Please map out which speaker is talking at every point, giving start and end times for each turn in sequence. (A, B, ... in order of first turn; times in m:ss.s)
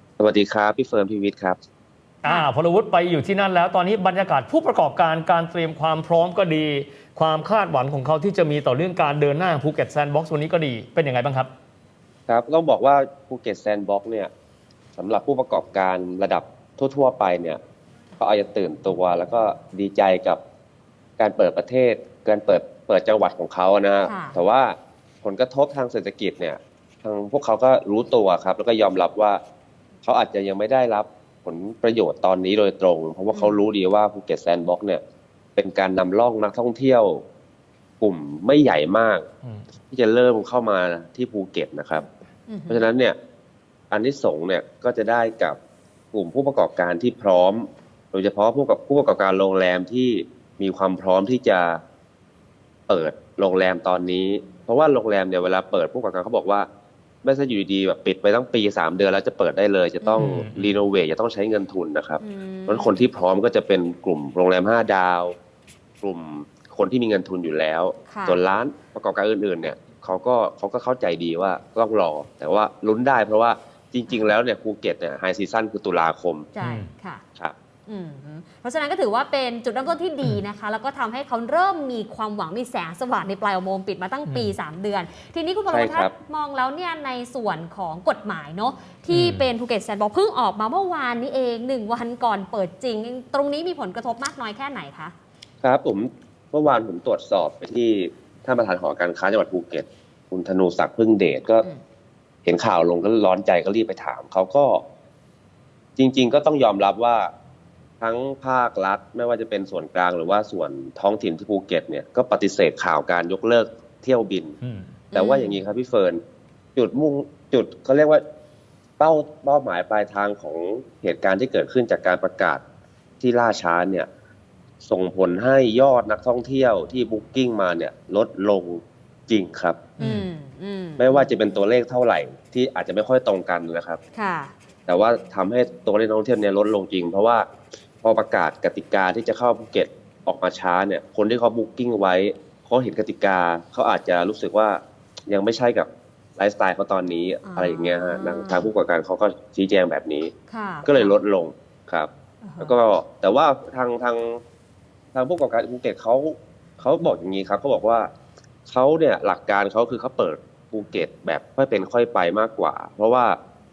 0:00.2-0:01.6 A
0:02.2-0:11.5 B
0:12.3-0:14.3 A
0:15.0-0:17.6 A
0:18.2-0:20.4 A
0:21.2-0:29.4 A
0:24.0-0:24.4 C
0:30.0-0:35.0 A
0:35.6-0:37.2 A
0:38.0-0:39.2 A
0:39.9-0:42.1 A
0:42.5-0:42.8 C
0:42.7-0:43.2 A
0:43.9-0:45.6 A
0:46.1-0:51.8 A
0:52.9-0:56.7 A
0:57.2-1:05.3 A
1:00.0-1:00.3 C
1:00.2-1:00.8 B
1:02.2-1:03.0 C
1:06.0-1:16.5 A
1:08.1-1:08.4 C
1:14.1-1:14.3 C
1:16.5-1:17.2 C
1:16.6-1:16.9 B
1:17.9-1:35.1 C
1:24.2-1:24.5 B
1:25.7-1:26.1 A
1:29.1-1:29.4 B
1:35.6-1:41.6 A
1:42.4-1:44.8 A
1:46.0-1:47.3 A
1:48.0-1:54.6 A
1:54.6-1:54.9 B
1:55.1-1:56.2 A
1:55.1-1:55.6 C
1:56.7-1:58.2 A
1:59.0-2:02.6 A
2:03.2-2:04.1 A
2:04.8-2:09.9 A
2:10.0-2:11.3 C
2:10.0-2:10.2 B
2:11.0-2:14.0 A
2:14.2-2:14.5 C
2:14.9-2:17.4 A
2:18.0-2:30.3 A
2:27.4-2:28.7 C
2:30.5-2:31.2 C
2:30.8-2:32.1 A
2:32.4-2:32.7 C
2:32.6-2:34.4 A
2:35.1-2:38.1 A
2:38.7-2:43.4 A